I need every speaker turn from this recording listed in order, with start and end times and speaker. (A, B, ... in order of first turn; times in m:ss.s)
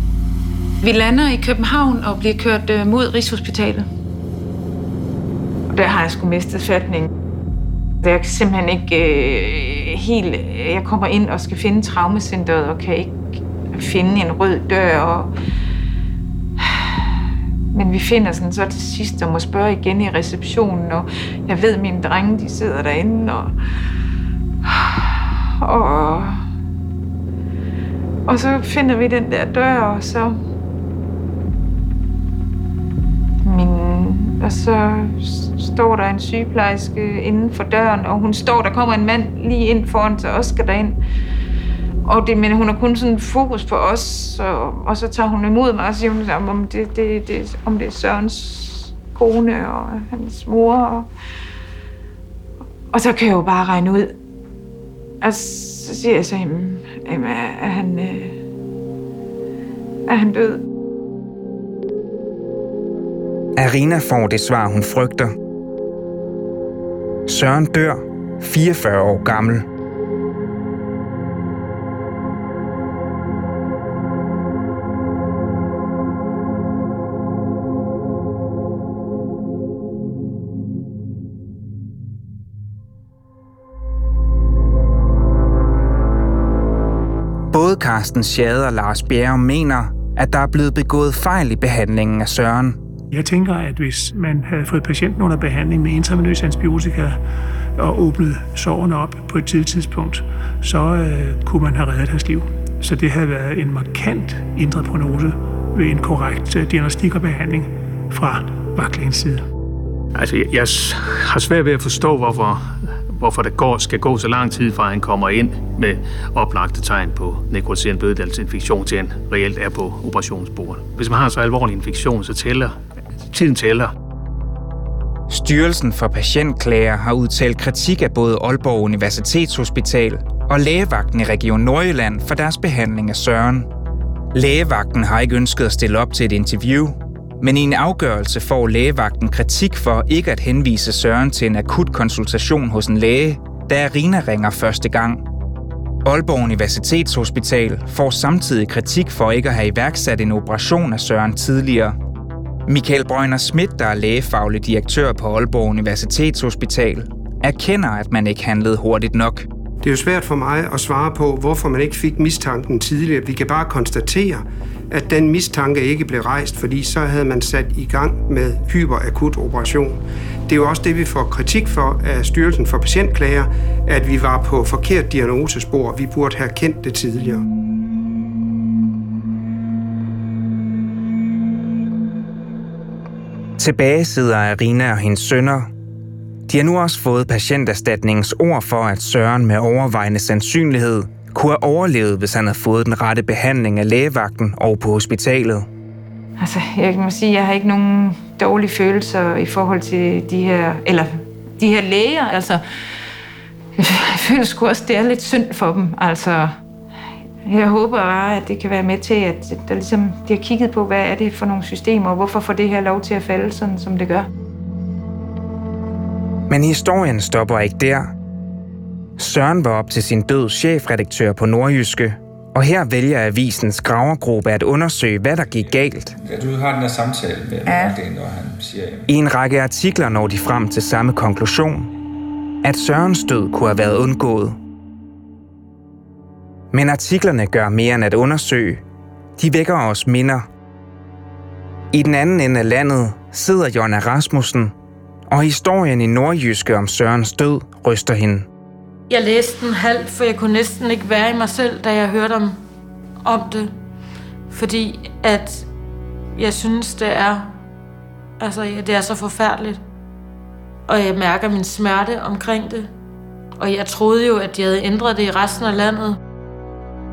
0:00.8-0:03.9 A
0:05.7-0:07.1 A
0:08.0-0:15.3 A
0:16.6-0:17.1 A
0:17.7-0:23.6 A
0:24.6-0:26.4 A
0:28.3-0:30.4 A
0:33.4-0:41.0 A
0:42.0-0:51.1 A
0:52.9-0:54.1 A
0:55.2-0:58.4 A
1:00.1-1:00.6 A
1:03.6-1:05.4 B
1:07.3-1:09.7 B
1:27.5-1:32.8 B
1:33.1-1:37.2 C
1:37.8-1:49.4 C
1:50.2-2:02.8 D
2:03.3-2:03.9 D
2:05.3-2:13.7 B
2:14.3-2:25.2 B
2:26.0-2:32.0 B
2:32.7-2:39.5 B
2:39.8-2:57.4 E
3:03.6-3:05.7 B
3:06.5-3:15.7 B
3:16.4-3:22.6 A
3:23.8-3:26.6 A
3:27.4-3:34.3 A
3:36.5-3:38.1 B
3:39.2-3:46.2 B
3:46.2-3:49.0 F
3:49.1-3:51.9 B
3:52.6-3:54.6 B
3:56.7-3:58.8 B
3:59.4-4:00.5 B
4:01.9-4:04.7 B
4:05.3-4:08.5 B
4:09.1-4:12.6 G
4:13.2-4:13.7 G
4:14.5-4:15.7 G
4:16.4-4:17.6 G
4:18.4-4:19.8 G
4:20.9-4:22.9 G
4:23.6-4:26.2 G